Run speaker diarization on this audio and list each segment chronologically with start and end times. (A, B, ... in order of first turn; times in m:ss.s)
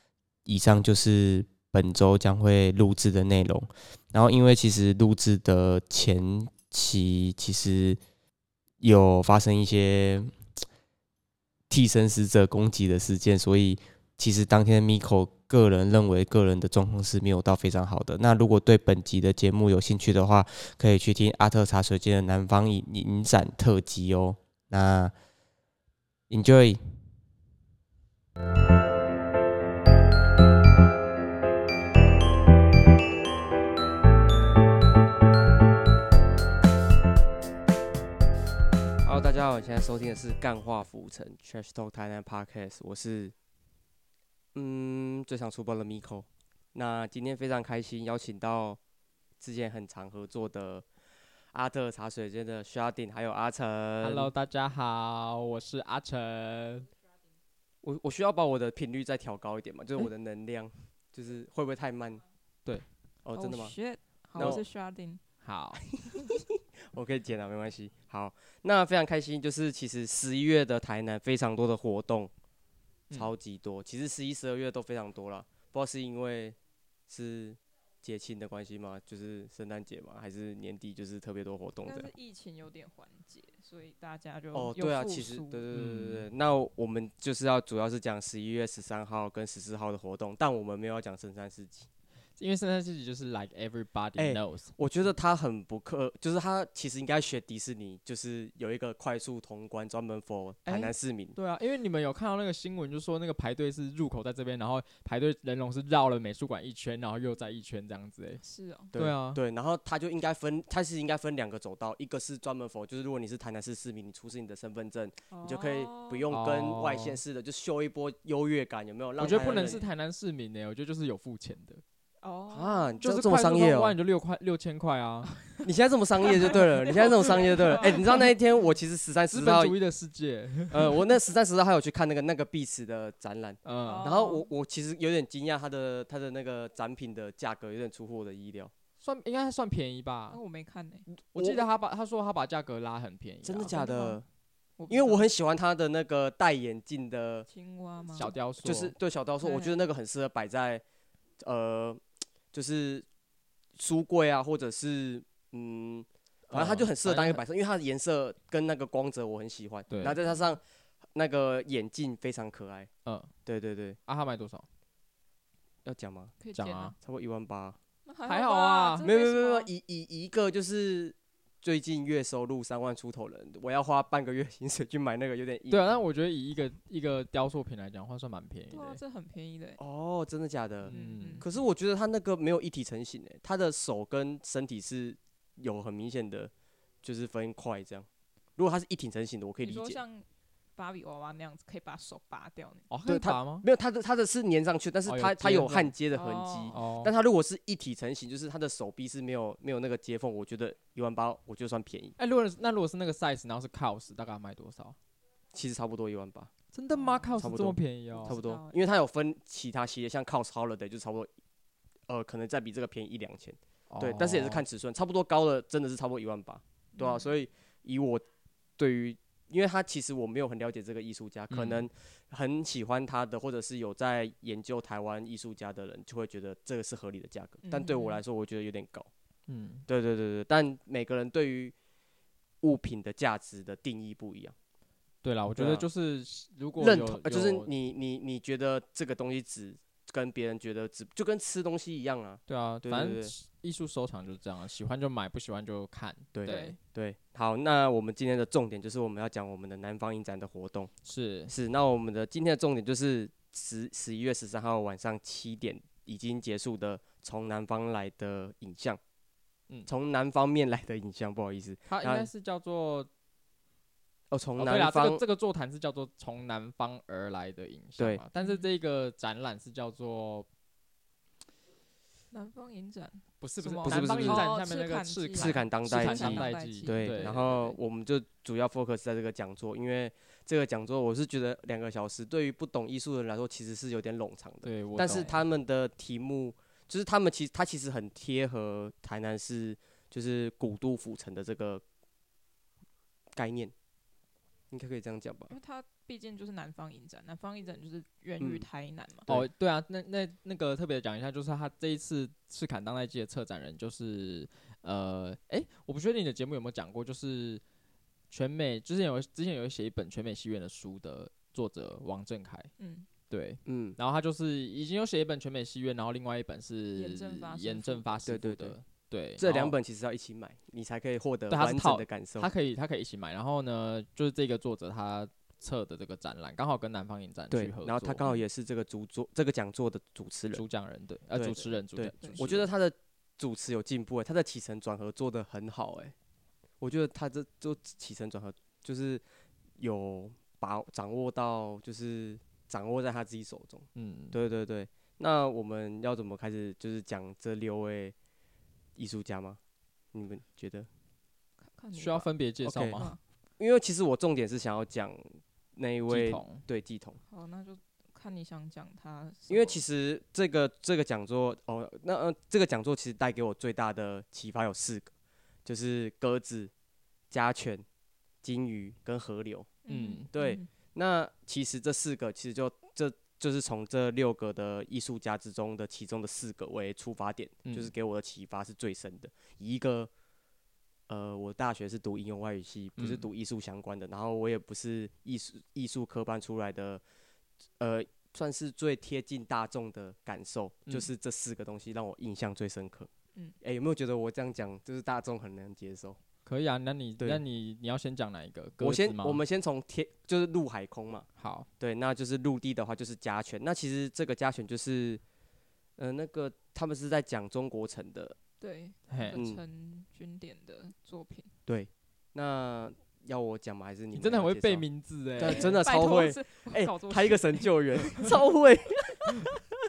0:00.4-0:08.0 A
0:08.8-0:10.3 A
0:11.7-0:25.1 A
0:26.3-0:26.8 A
0:39.0-0:43.3 A
0:44.5-0:48.8 A
0:49.4-0:50.8 A
0:51.5-0:54.3 A
0:54.0-0:56.9 B
0:57.8-1:03.7 A
1:03.3-1:05.2 C
1:04.4-1:04.6 A
1:05.4-1:05.8 B
1:05.9-1:12.3 A
1:13.1-1:16.6 A
1:17.1-1:22.1 A
1:21.8-1:25.6 C
1:24.5-1:31.9 A
1:25.7-1:26.3 B
1:32.4-1:34.7 B
1:34.2-1:41.4 A
1:40.6-1:48.4 B
1:48.4-1:48.9 C
1:48.9-1:49.4 B
1:48.9-1:59.8 A
1:55.3-1:56.3 C
1:56.3-1:57.2 B
1:59.2-2:01.8 B
1:59.2-1:59.9 C
2:02.2-2:03.0 C
2:02.5-2:04.0 A
2:03.0-2:05.3 B
2:05.6-2:09.8 A
2:06.9-2:08.3 C
2:09.3-2:11.1 B
2:10.7-2:18.7 A
2:13.6-2:14.2 B
2:13.8-2:14.5 C
2:19.0-2:20.4 B
2:20.3-2:21.1 C
2:21.2-2:21.6 A
2:21.3-2:23.8 B
2:23.4-2:24.2 A
2:23.7-2:24.2 C
2:24.8-2:25.3 C
2:24.9-2:27.5 A
2:27.5-2:28.3 C
2:28.1-2:28.9 B
2:28.6-2:30.8 A
2:29.4-2:29.8 C
2:31.4-2:33.0 A
2:33.8-2:40.6 A
2:36.5-2:37.4 B
2:39.9-2:40.2 B
2:40.0-2:40.4 C
2:41.1-2:42.9 A
2:43.0-2:43.3 B
2:43.4-2:44.0 A
2:44.1-2:44.6 B
2:45.8-2:46.3 A
2:46.4-2:47.0 C
2:46.5-2:47.0 B
2:47.0-2:47.8 A
2:48.0-2:49.7 C
2:48.2-2:49.0 B
2:49.0-2:56.0 A
2:55.7-2:59.0 B
2:58.7-2:59.8 C
2:59.8-3:06.5 A
3:00.8-3:01.4 B
3:00.9-3:01.5 C
3:07.0-3:10.0 A
3:09.6-3:12.9 C
3:12.9-3:13.6 B
3:13.0-3:22.2 A
3:15.0-3:15.9 B
3:16.1-3:16.8 C
3:16.7-3:17.1 B
3:22.2-3:25.0 B
3:25.5-3:26.5 A
3:26.7-3:28.4 B
3:26.9-3:27.5 C
3:27.4-3:31.3 A
3:28.1-3:28.9 C
3:32.1-3:38.2 A
3:33.9-3:34.6 B
3:36.9-3:37.3 C
3:38.8-3:49.1 A
3:41.5-3:41.9 B
3:47.6-3:48.2 C
3:49.5-3:49.9 B
3:49.9-3:51.7 A
3:52.6-3:54.5 A
3:55.2-3:57.7 B
3:55.6-3:55.9 A
3:56.8-4:03.3 A
4:02.5-4:06.8 B
4:06.3-4:10.9 A
4:06.4-4:06.8 C
4:11.0-4:11.5 B
4:11.5-4:19.0 A
4:19.9-4:22.3 A
4:21.9-4:23.1 B
4:24.3-4:25.2 A
4:24.6-4:30.5 B
4:28.0-4:28.2 A
4:28.4-4:28.7 C
4:32.3-4:37.8 C
4:33.4-4:37.4 B
4:33.8-4:34.5 A
4:35.3-4:51.8 A
4:44.6-4:45.4 B
4:53.4-4:53.7 A
4:54.7-4:55.5 A
4:55.5-4:59.3 C
4:58.4-4:58.6 A
4:59.3-5:07.6 B
5:08.3-5:12.7 B
5:12.8-5:13.1 C
5:13.3-5:19.8 B
5:13.6-5:14.0 A
5:16.9-5:18.2 C
5:18.2-5:18.8 A
5:19.4-5:22.5 A
5:21.5-5:28.2 B
5:27.5-5:30.6 A
5:30.5-5:32.7 B
5:31.3-5:36.1 A
5:32.2-5:32.5 C
5:36.8-5:39.2 A
5:39.8-5:48.1 A
5:43.9-5:44.4 B
5:49.0-5:49.6 A
5:50.1-5:50.9 A
5:51.7-5:52.3 C
5:51.9-5:53.1 B
5:52.6-5:53.1 A
5:53.6-5:57.2 A
5:56.1-5:56.6 B
5:57.3-5:59.8 C
5:59.5-6:05.1 A
6:05.6-6:06.7 A
6:07.3-6:07.8 A
6:08.4-6:09.7 A
6:09.8-6:10.7 C
6:09.9-6:10.3 B
6:10.3-6:20.1 A
6:17.6-6:17.9 B
6:21.1-6:27.0 A
6:23.0-6:23.2 B
6:27.8-6:33.1 A
6:33.6-6:36.2 A
6:36.4-6:39.4 B
6:38.8-6:41.2 A
6:41.4-6:41.7 B
6:41.8-6:45.2 A
6:46.0-6:48.4 A
6:48.6-6:51.5 C
6:49.1-6:49.4 B
6:49.3-6:49.6 A
6:51.6-6:54.8 A
6:54.1-6:55.8 B
6:55.4-6:59.6 A
6:55.4-6:58.3 C